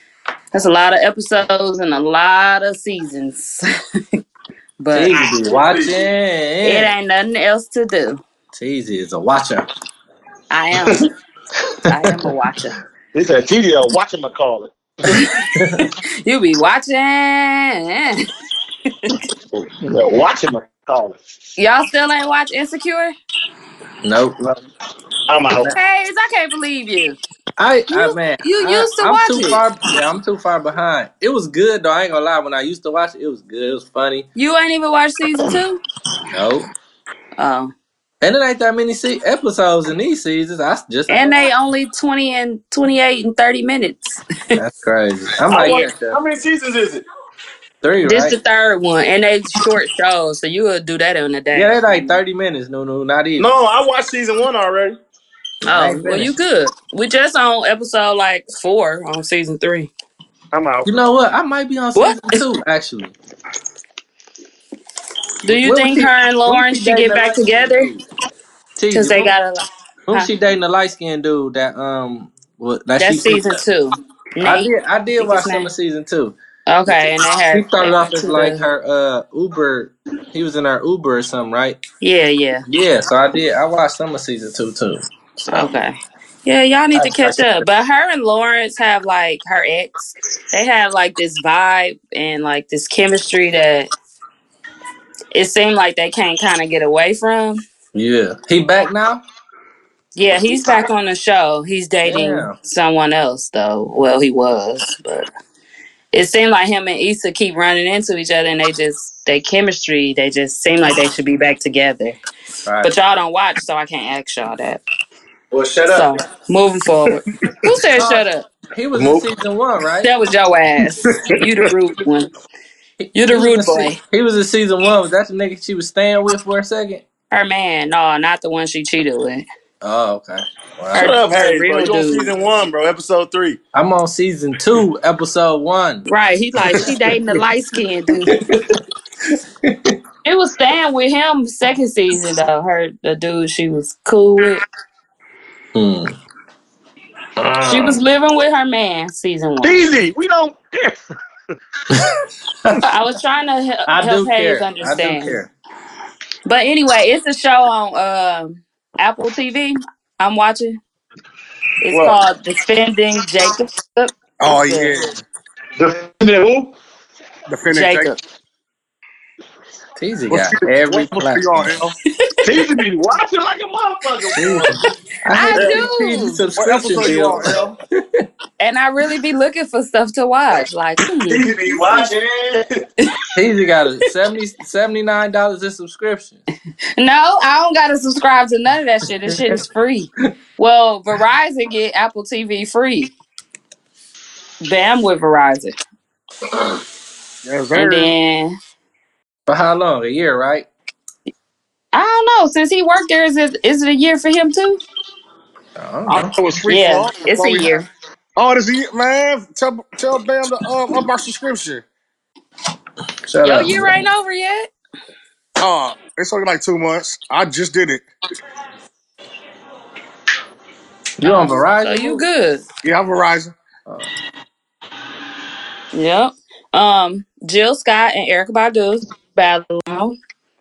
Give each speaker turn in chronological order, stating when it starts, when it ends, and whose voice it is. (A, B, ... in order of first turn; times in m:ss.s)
0:00.5-0:03.6 A
0:04.8-0:05.2 A
0:04.9-0:06.9 B
0:05.4-0:06.0 C
0:06.6-0:08.2 A
0:08.5-0:09.7 B
0:10.5-0:11.1 A
0:11.9-0:12.8 A
0:13.1-0:14.7 C
0:15.1-0:18.3 A
0:15.5-0:15.9 B
0:19.5-0:21.2 C
0:21.6-0:23.1 A
0:24.0-0:24.6 B
0:25.3-0:25.7 C
0:25.7-0:27.2 A
0:27.6-0:34.3 B
0:27.9-0:29.6 A
0:34.4-0:35.8 A
0:36.3-0:36.7 B
0:37.4-0:37.7 A
0:38.2-0:41.4 B
0:41.1-0:44.6 A
0:44.6-0:46.2 B
0:45.5-0:47.0 C
0:47.8-0:48.4 B
0:48.0-0:52.2 A
0:51.5-0:53.5 B
0:53.4-0:55.0 C
0:55.7-0:56.3 B
0:55.7-0:59.9 A
1:00.5-1:00.9 C
1:00.8-1:03.2 B
1:02.0-1:02.4 A
1:05.4-1:07.9 A
1:05.5-1:08.0 B
1:08.8-1:09.3 B
1:08.9-1:10.3 A
1:10.1-1:13.6 B
1:13.0-1:15.7 A
1:14.4-1:16.4 B
1:16.7-1:18.6 A
1:17.5-1:21.8 B
1:22.0-1:22.6 A
1:22.7-1:25.8 B
1:25.5-1:33.9 A
1:27.0-1:27.6 B
1:35.3-1:37.6 A
1:37.9-1:39.2 B
1:40.2-1:45.3 A
1:42.0-1:42.6 B
1:46.1-1:52.2 A
1:52.6-1:52.9 B
1:52.8-1:54.8 A
1:55.5-1:56.0 C
1:55.9-1:58.5 A
1:58.7-2:00.1 B
1:59.0-1:59.3 C
2:00.0-2:02.3 A
2:03.0-2:07.0 B
2:03.1-2:04.0 A
2:07.3-2:09.5 A
2:09.8-2:11.2 B
2:10.9-2:12.3 A
2:11.0-2:13.6 C
2:13.7-2:16.1 B
2:16.1-2:18.4 A
2:18.3-2:18.8 B
2:19.6-2:20.0 B
2:20.2-2:24.6 A
2:25.8-2:26.1 B
2:27.4-2:28.0 B
2:27.6-2:29.9 A
2:29.6-2:31.1 C
2:32.8-2:35.4 A
2:33.9-2:35.5 B
2:36.4-2:40.8 A
2:41.8-2:45.0 A
2:41.9-2:42.2 C
2:44.4-2:45.2 D
2:45.8-2:46.7 C
2:47.5-2:48.1 D
2:47.7-2:48.2 A
2:50.0-2:51.8 B
2:50.3-2:51.9 D
2:52.4-2:54.8 C
2:54.3-2:57.6 B
2:55.3-2:56.4 A
2:55.6-2:55.8 C
2:56.6-2:57.8 D
2:58.6-3:02.1 A
3:01.3-3:02.8 C
3:03.4-3:06.4 B
3:07.0-3:13.1 A
3:14.6-3:15.8 A
3:17.4-3:18.1 D
3:17.7-3:18.6 A
3:19.5-3:20.7 B
3:21.9-3:24.8 A
3:25.8-3:26.3 B
3:26.1-3:27.7 D
3:26.7-3:27.9 A
3:28.4-3:31.8 D
3:33.3-3:34.0 B
3:33.4-3:34.7 A
3:35.6-3:38.1 D
3:41.2-3:42.2 B
3:41.2-3:42.6 A
3:42.8-3:43.6 D
3:45.9-3:50.2 A